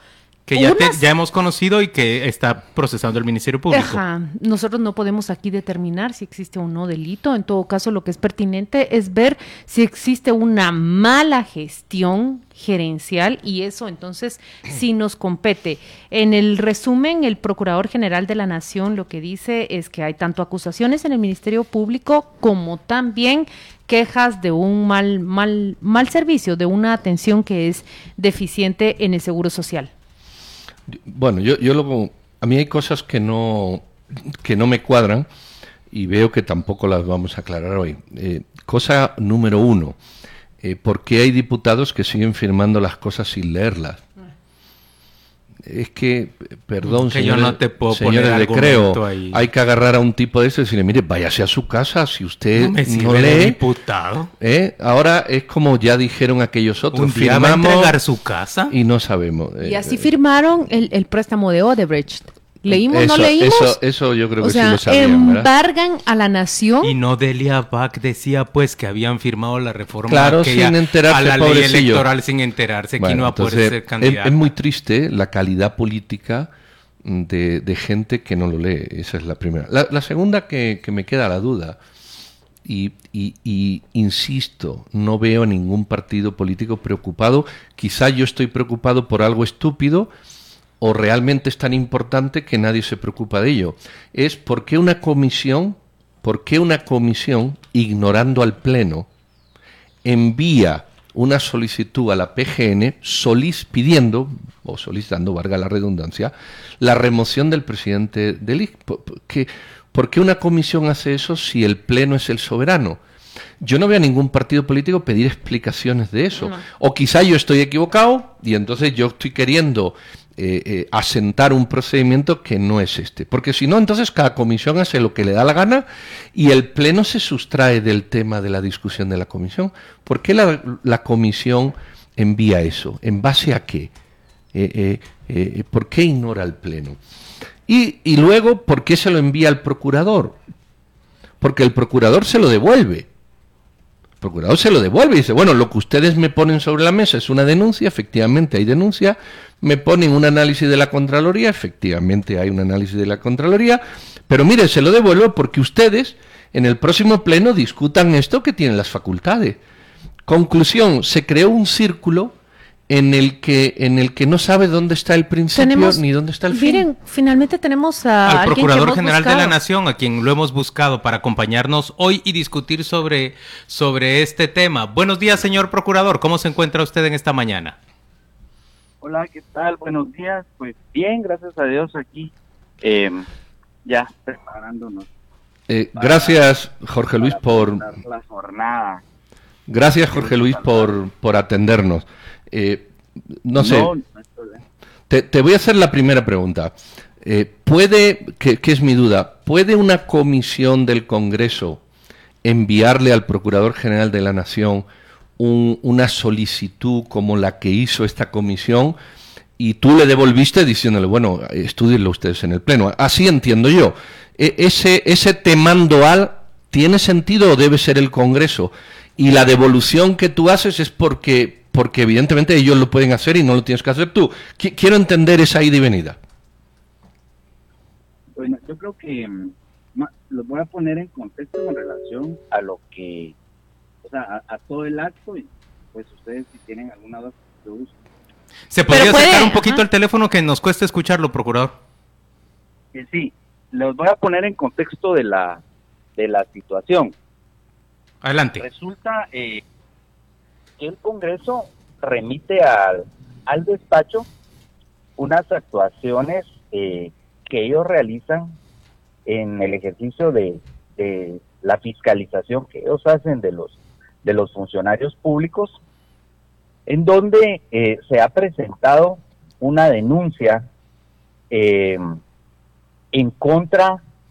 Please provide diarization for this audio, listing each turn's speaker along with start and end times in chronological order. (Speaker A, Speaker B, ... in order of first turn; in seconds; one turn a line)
Speaker A: 0.5-4.0
Speaker B: 0.5-1.0
Speaker B: 3.7-29.9
Speaker C: 30.9-35.3
Speaker C: 35.9-40.0
Speaker C: 40.6-44.0
Speaker C: 45.6-53.6
Speaker A: 46.8-49.4
Speaker A: 52.5-54.3
Speaker C: 54.4-58.0
Speaker A: 56.9-58.7
Speaker C: 58.7-60.1
Speaker B: 59.6-63.8
Speaker C: 62.7-65.5
Speaker B: 64.4-66.9
Speaker A: 66.8-74.3
Speaker C: 70.1-72.1
Speaker C: 73.0-76.5
Speaker C: 77.0-81.8
Speaker C: 82.6-90.1
Speaker C: 90.8-99.1
Speaker C: 100.0-113.0
Speaker C: 113.6-133.9
Speaker B: 116.4-116.6
Speaker C: 134.5-137.0
Speaker C: 137.7-140.4
Speaker C: 141.4-143.1
Speaker C: 144.2-159.6
Speaker C: 160.2-162.3
Speaker C: 162.9-166.9
Speaker B: 165.5-169.5
Speaker A: 168.2-177.8
Speaker D: 179.0-183.2
Speaker D: 183.8-185.1
Speaker C: 185.7-187.8
Speaker D: 185.9-186.4
Speaker D: 187.2-189.0
Speaker C: 189.7-192.9
Speaker D: 190.1-190.9
Speaker C: 193.4-193.9
Speaker D: 193.6-194.6
Speaker C: 195.1-201.8
Speaker C: 202.4-204.8
Speaker C: 205.4-208.9
Speaker C: 209.6-226.2
Speaker D: 228.3-233.3
Speaker D: 234.0-237.9
Speaker A: 238.7-241.7
Speaker B: 238.9-239.8
Speaker D: 242.9-245.6
Speaker D: 246.2-247.1
Speaker A: 248.2-248.6
Speaker D: 248.6-249.6
Speaker D: 250.8-254.3
Speaker D: 255.2-258.5
Speaker D: 259.2-265.8
Speaker D: 266.9-270.6
Speaker D: 271.5-272.2
Speaker D: 273.1-274.0